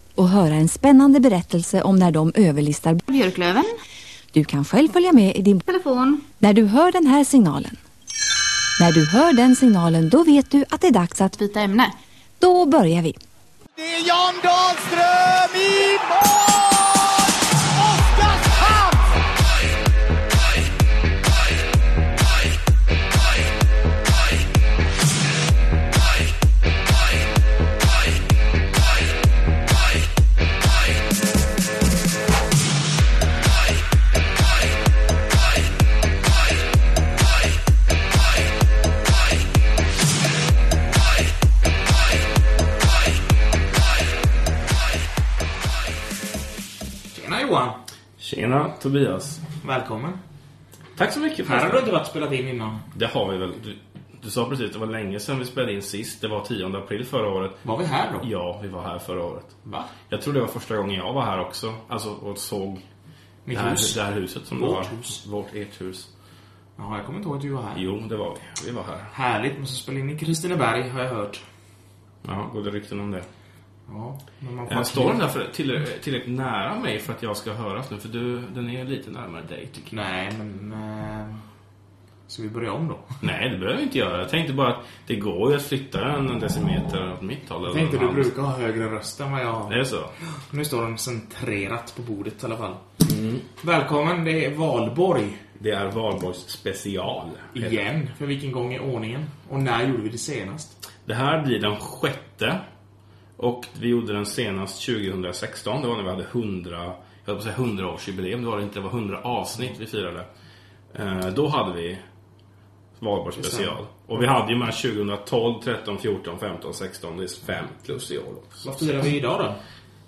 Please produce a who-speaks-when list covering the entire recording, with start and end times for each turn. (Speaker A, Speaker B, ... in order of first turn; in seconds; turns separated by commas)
Speaker A: 0.2-3.0, Speaker B: 3.1-3.7, Speaker A: 4.3-5.6, Speaker B: 5.6-6.2, Speaker A: 6.4-7.8, Speaker A: 8.8-11.3, Speaker B: 11.3-11.9, Speaker A: 12.4-13.2, Speaker C: 13.8-19.1, Speaker D: 47.1-47.8, Speaker E: 48.2-49.4, Speaker D: 49.6-50.2, Speaker E: 51.0-51.9, Speaker D: 51.4-52.8, Speaker E: 52.9-57.6, Speaker D: 57.6-58.2, Speaker E: 58.2-59.5, Speaker D: 59.6-59.9, Speaker E: 60.1-62.8, Speaker D: 63.5-64.0, Speaker E: 63.5-66.1, Speaker D: 64.5-65.2, Speaker D: 66.8-67.8, Speaker E: 67.7-69.1, Speaker D: 69.1-71.4, Speaker E: 72.2-73.3, Speaker D: 73.9-75.3, Speaker E: 74.7-79.9, Speaker D: 79.9-81.4, Speaker D: 82.3-83.2, Speaker E: 83.2-88.3, Speaker D: 87.7-89.8, Speaker E: 89.7-90.1, Speaker D: 90.5-92.8, Speaker E: 93.0-93.4, Speaker D: 93.6-95.4, Speaker E: 95.6-97.8, Speaker D: 97.5-100.7, Speaker E: 101.0-102.6, Speaker E: 103.4-110.3, Speaker E: 110.9-112.0, Speaker E: 113.0-118.8, Speaker D: 113.4-113.7, Speaker D: 118.6-119.6